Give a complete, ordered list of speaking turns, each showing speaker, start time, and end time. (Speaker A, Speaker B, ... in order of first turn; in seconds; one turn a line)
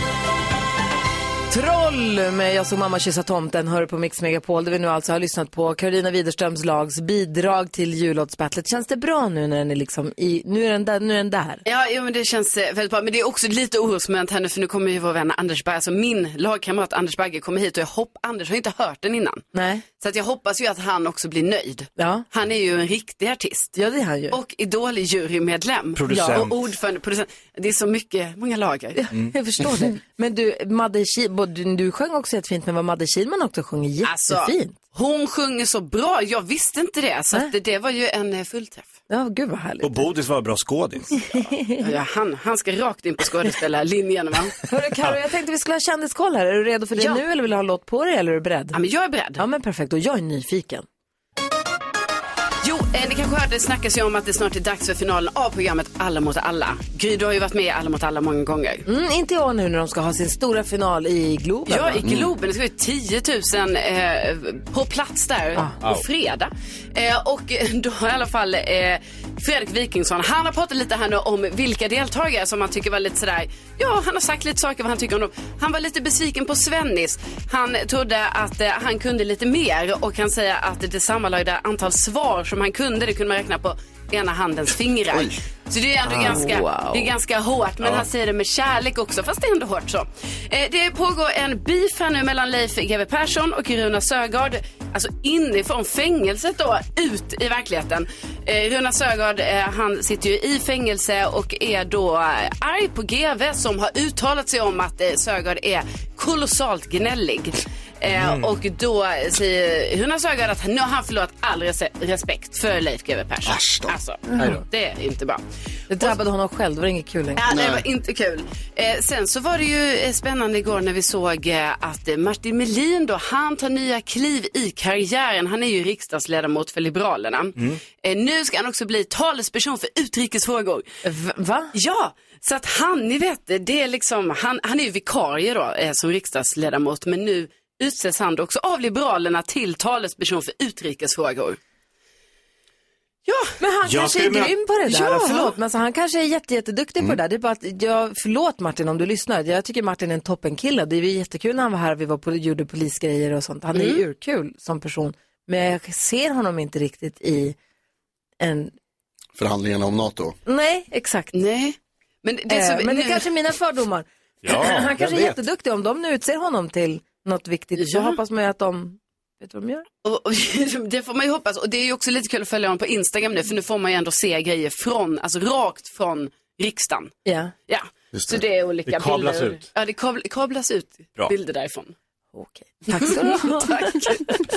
Speaker A: 1.5-11.6
Speaker B: 11.6-19.4
Speaker A: 19.5-19.8
Speaker B: 20.0-23.8
Speaker A: 22.0-22.2
Speaker A: 23.8-24.4
Speaker B: 24.3-29.0
Speaker C: 25.9-26.6
Speaker A: 28.9-34.8
Speaker B: 34.0-38.9
Speaker A: 39.1-40.1
Speaker C: 39.8-41.2
Speaker A: 41.2-41.9
Speaker B: 41.8-44.5
Speaker A: 44.7-48.8
Speaker B: 47.0-47.2
Speaker B: 48.7-49.4
Speaker A: 49.4-50.8
Speaker B: 52.6-58.8
Speaker A: 58.9-62.0
Speaker B: 61.7-115.4
Speaker D: 62.0-62.3
Speaker A: 86.6-87.0
Speaker C: 108.1-108.5
Speaker D: 113.4-114.0
Speaker A: 115.9-117.4
Speaker B: 117.4-130.8
Speaker D: 117.5-117.8
Speaker A: 131.0-131.7
Speaker B: 131.7-141.6
Speaker B: 143.2-143.5
Speaker A: 143.6-157.6
Speaker C: 143.8-144.6
Speaker B: 144.9-145.5
Speaker B: 153.7-154.0
Speaker A: 158.4-158.7
Speaker D: 159.3-160.4
Speaker A: 160.4-161.3
Speaker B: 161.3-163.3
Speaker A: 162.5-169.8
Speaker C: 164.4-165.4
Speaker B: 167.8-168.2
Speaker B: 170.0-177.2
Speaker A: 177.2-177.5
Speaker B: 177.7-181.9
Speaker D: 178.1-178.4
Speaker C: 178.9-179.6
Speaker A: 182.3-184.1
Speaker B: 182.9-184.4